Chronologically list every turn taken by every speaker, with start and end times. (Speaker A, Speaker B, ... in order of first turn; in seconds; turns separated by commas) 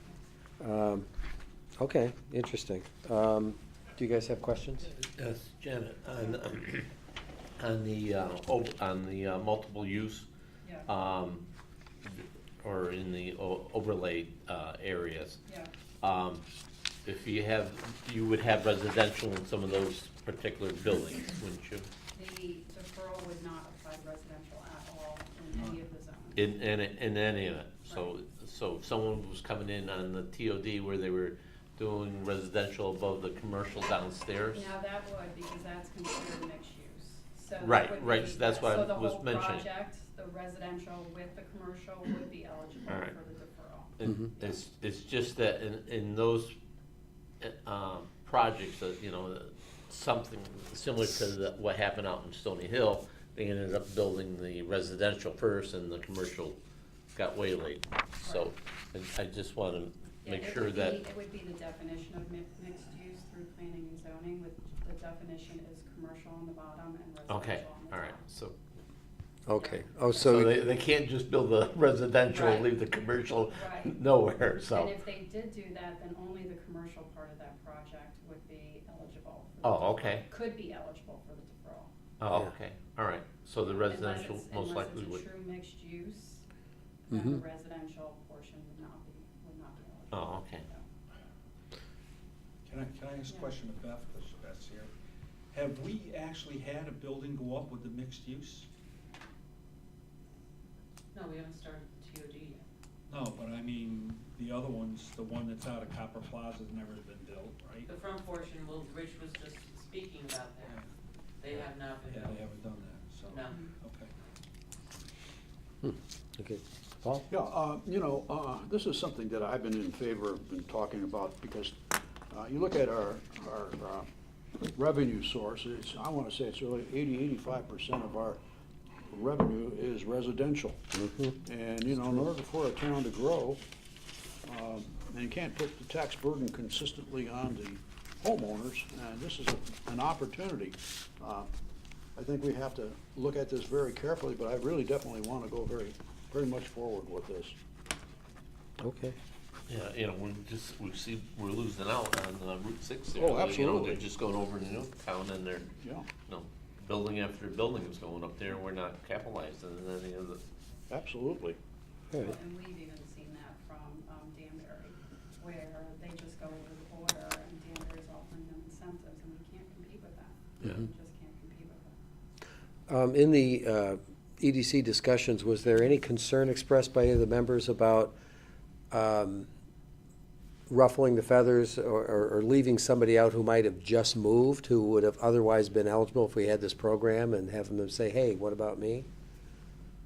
Speaker A: 0.6-1.1, Speaker A: 1.8-4.9, Speaker B: 4.9-6.9, Speaker B: 7.6-10.3, Speaker C: 10.6-10.9, Speaker B: 10.9-11.5, Speaker B: 12.1-15.4, Speaker C: 15.5-15.7, Speaker B: 16.0-16.5, Speaker B: 17.1-21.9, Speaker C: 22.1-26.5, Speaker B: 26.4-34.7, Speaker C: 34.5-44.6, Speaker B: 37.6-39.7, Speaker B: 42.9-43.1, Speaker B: 44.0-46.5, Speaker B: 47.4-56.6, Speaker B: 57.1-61.0, Speaker C: 58.2-58.5, Speaker C: 60.2-68.2, Speaker B: 67.3-68.5, Speaker A: 69.5-70.6, Speaker B: 70.2-75.0, Speaker C: 72.3-72.7, Speaker C: 73.5-74.0, Speaker C: 74.7-81.9, Speaker B: 79.6-80.3, Speaker B: 82.2-85.3, Speaker C: 83.7-86.5, Speaker C: 87.1-90.9, Speaker A: 87.1-87.4, Speaker B: 90.1-90.7, Speaker D: 92.7-94.9, Speaker D: 95.5-98.7, Speaker E: 101.1-102.6, Speaker D: 103.1-107.9, Speaker E: 107.9-110.8, Speaker E: 111.4-112.5, Speaker D: 111.5-114.1, Speaker E: 113.3-113.7, Speaker A: 115.8-117.3, Speaker F: 117.3-124.1, Speaker F: 124.6-128.4, Speaker F: 129.1-133.6, Speaker A: 130.9-131.4, Speaker F: 134.4-141.5, Speaker F: 142.2-147.6, Speaker A: 148.8-149.2, Speaker B: 149.7-155.7, Speaker F: 153.1-154.0, Speaker F: 155.8-156.1, Speaker B: 156.2-160.4, Speaker F: 160.9-161.6, Speaker C: 162.2-172.0, Speaker A: 172.9-178.2, Speaker A: 178.9-179.5, Speaker A: 180.7-189.1